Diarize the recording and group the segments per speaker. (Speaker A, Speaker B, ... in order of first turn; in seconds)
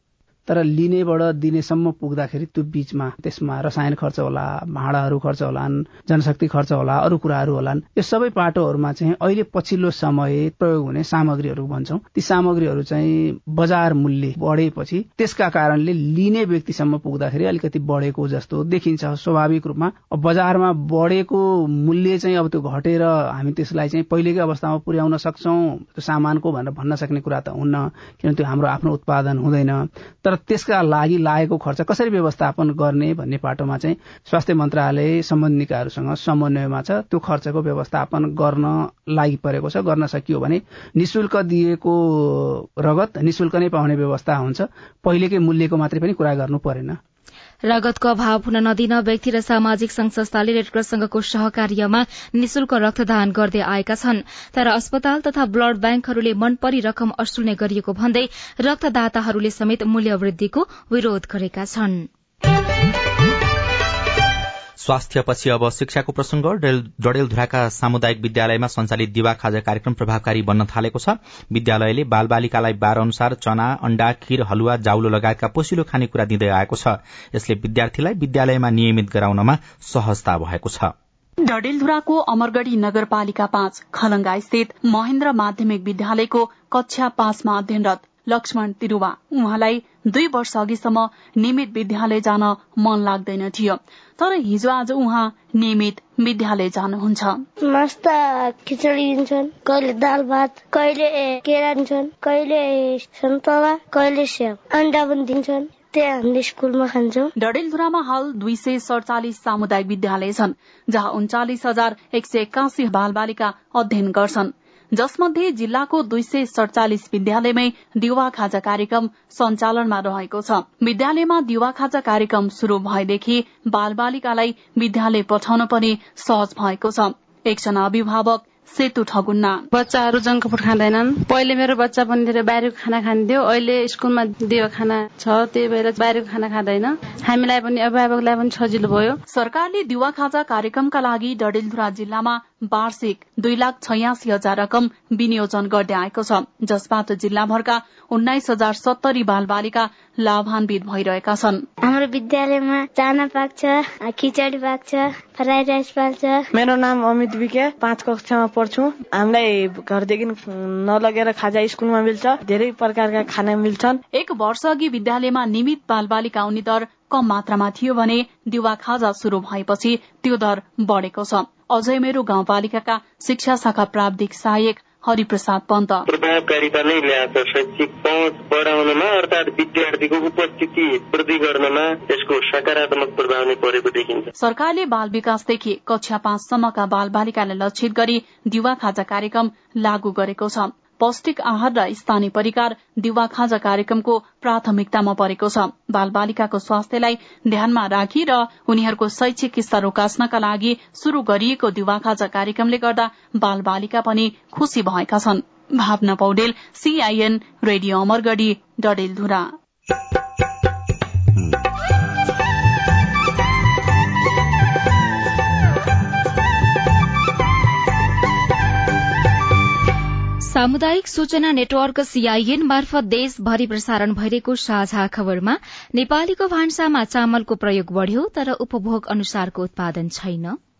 Speaker A: 0.5-47.0
Speaker B: 47.7-62.1, 220.4-230.6
Speaker C: 64.8-80.9
Speaker D: 81.4-97.4, 107.4-129.7, 139.3-151.6, 164.1-176.0, 184.4-209.5
Speaker E: 97.6-107.3, 151.8-156.5
Speaker F: 129.7-139.2
Speaker G: 156.5-164.0
Speaker H: 176.1-184.3